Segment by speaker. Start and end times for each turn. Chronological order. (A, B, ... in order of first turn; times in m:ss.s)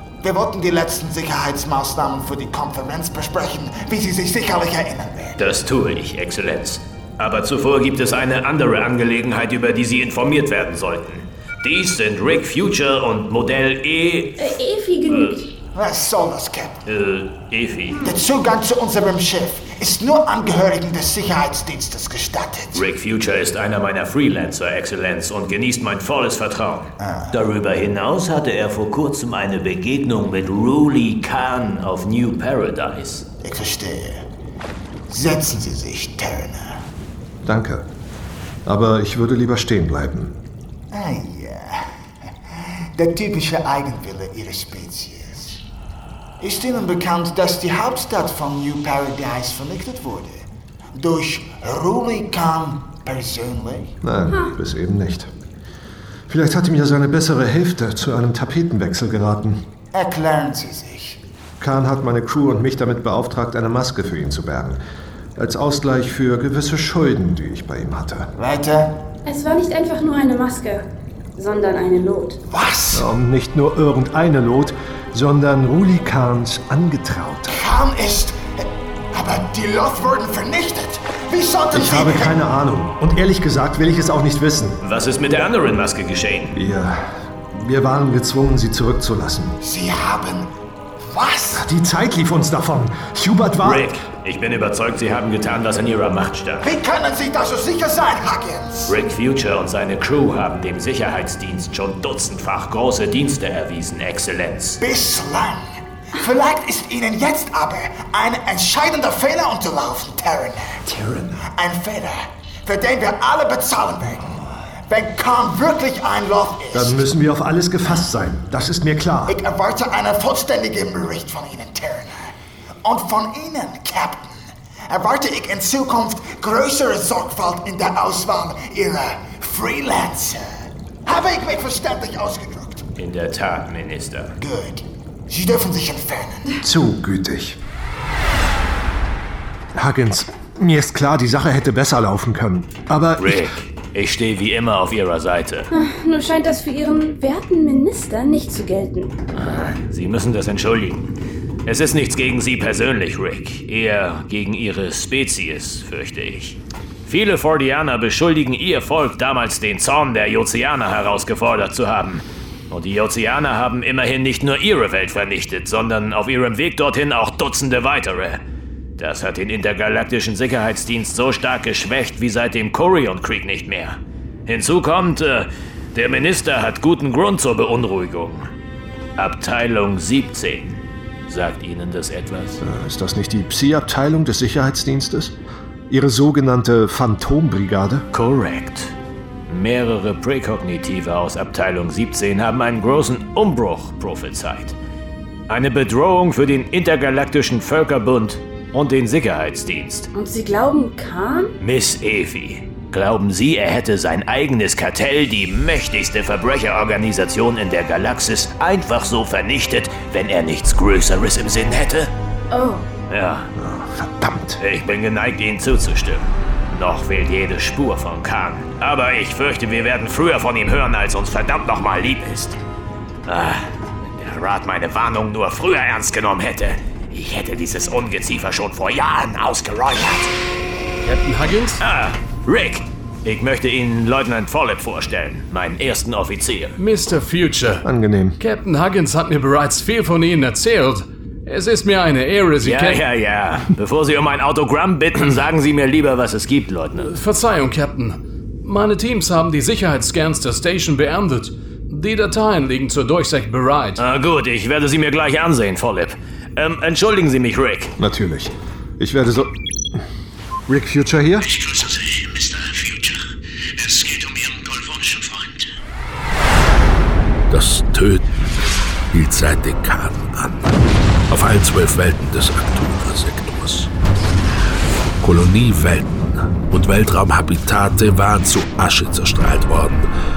0:00.2-0:05.4 A
0:05.4-0:15.4 B
0:14.4-0:15.5 C
0:15.8-0:16.8 A
0:16.9-0:18.0 B
0:18.0-0:22.8 A
0:22.7-0:33.2 B
0:27.0-0:27.3 A
0:33.4-0:34.2 A
0:35.1-0:36.8 A
0:37.4-0:37.9 D
0:38.7-0:40.4 D
0:40.9-0:41.9 A
0:42.5-0:45.6 A
0:46.4-0:54.0 A
0:54.0-0:55.3 D
0:56.3-0:59.6 D
0:59.9-1:01.2 A
1:01.6-1:04.8 D
1:05.4-1:08.3 D
1:08.4-1:09.0 A
1:09.2-1:12.4 C
1:12.5-1:13.0 A
1:12.9-1:17.6 D
1:17.5-1:22.4 A
1:21.7-1:24.8 D
1:24.8-1:26.6 B
1:26.5-1:29.6 D
1:29.6-1:30.5 A
1:31.1-1:31.6 A
1:31.5-1:34.0 D
1:33.6-1:36.7 B
1:36.6-1:39.0 A
1:38.9-1:44.8 B
1:44.8-1:50.8 A
1:51.4-1:54.3 A
1:54.9-1:57.0 A
1:56.7-1:59.4 D
1:59.3-2:02.3 A
2:02.8-2:12.9 A
2:13.0-2:14.3 B
2:14.4-2:16.5 A
2:16.6-2:17.6 D
2:19.7-2:23.5 D
2:23.2-2:25.7 B
2:25.7-2:29.2 C
2:29.4-2:31.1 B
2:31.7-2:48.4 B
2:49.0-2:58.5 B
2:59.2-3:02.6 B
3:02.6-3:05.4 D
3:05.9-3:08.1 D
3:08.1-3:08.9 B
3:09.5-3:14.8 B
3:15.5-3:20.1 B
3:20.1-3:21.5 C
3:21.6-3:32.1 B
3:32.5-3:32.9 C
3:33.1-3:33.5 B
3:33.6-3:34.6 D
3:34.6-3:42.6 B
3:43.3-3:50.3 B
3:51.0-3:51.8 E
3:51.8-3:56.8 B
3:56.8-3:57.8 E
3:57.8-3:58.4 D
3:58.4-4:03.0 E
4:02.6-4:07.2 B
4:07.1-4:14.0 E
4:14.0-4:17.9 B
4:18.0-4:20.0 D
4:20.7-4:21.5 D
4:21.5-4:23.2 F
4:23.9-4:25.6 F
4:27.5-4:28.3 G
4:29.1-4:30.7 G
4:31.3-4:33.9 G
4:35.2-4:40.1 G